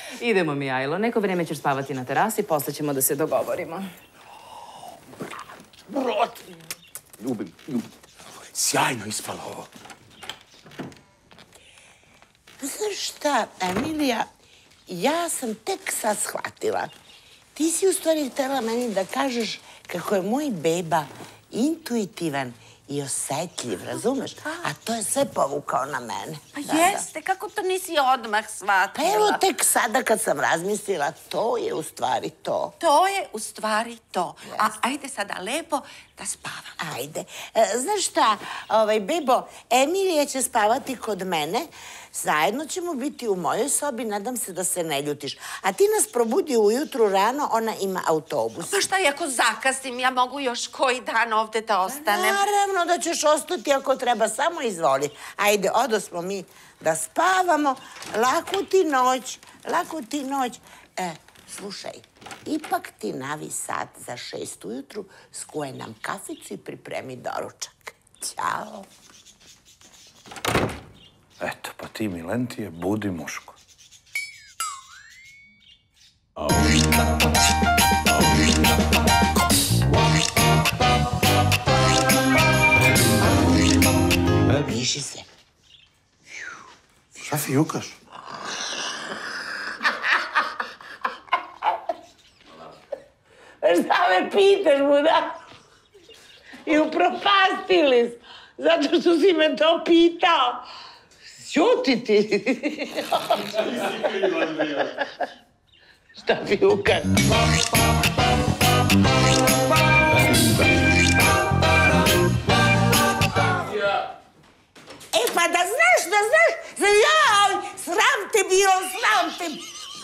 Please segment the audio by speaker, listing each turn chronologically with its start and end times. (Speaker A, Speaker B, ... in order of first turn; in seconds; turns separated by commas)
Speaker A: 0.2-3.9, Speaker B: 5.9-6.3, Speaker B: 7.2-7.9, Speaker B: 8.5-9.7, Speaker C: 12.6-14.3, Speaker C: 14.9-16.9, Speaker C: 17.6-27.1, Speaker D: 26.6-29.4, Speaker C: 28.9-32.7, Speaker D: 32.8-36.8, Speaker C: 34.5-34.7, Speaker C: 36.8-48.8, Speaker D: 48.6-52.4, Speaker C: 51.9-68.9, Speaker E: 71.4-73.6, Speaker C: 84.6-85.3, Speaker E: 87.2-88.0, Speaker C: 93.6-95.4, Speaker C: 96.7-100.7, Speaker C: 101.4-105.1, Speaker C: 106.2-107.3, Speaker C: 115.1-119.7